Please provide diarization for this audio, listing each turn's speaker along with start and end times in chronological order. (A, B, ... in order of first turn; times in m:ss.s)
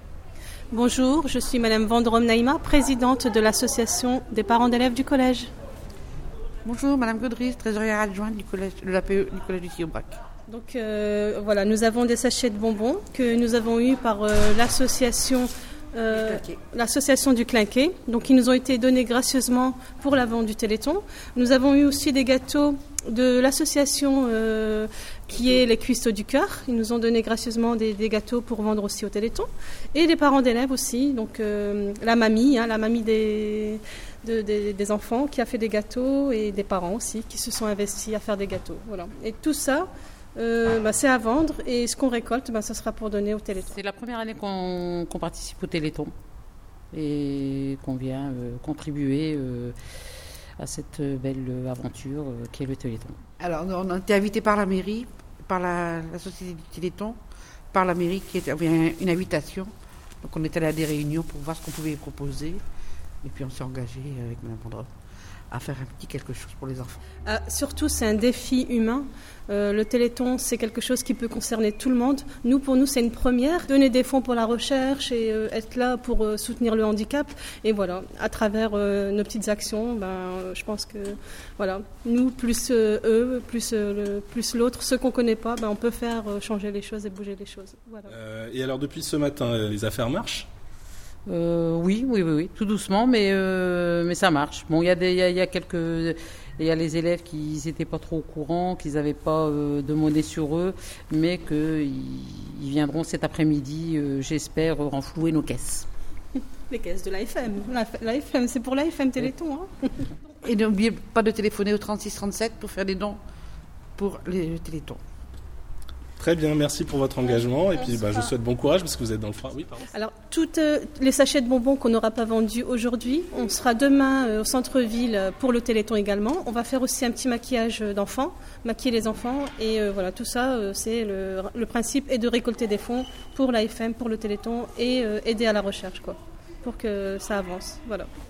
0:00.7-0:05.5 A
0:06.6-0:10.2 B
0:10.5-0:43.8 A
0:16.1-0:16.6 B
0:43.7-0:46.1 C
0:46.9-0:49.8 C
0:50.6-0:53.2 C
0:53.4-0:57.2 B
0:57.7-0:59.7 B
1:00.2-1:02.6 B
1:03.2-1:04.9 B
1:05.5-1:07.0 B
1:07.2-1:28.1 A
1:28.1-1:30.5 D
1:31.3-1:45.8 C
1:46.7-1:49.9 A
1:50.4-1:53.2 B
1:54.0-1:55.0 B
1:56.2-1:59.9 D
1:57.7-1:58.3 A
1:59.9-2:18.1 A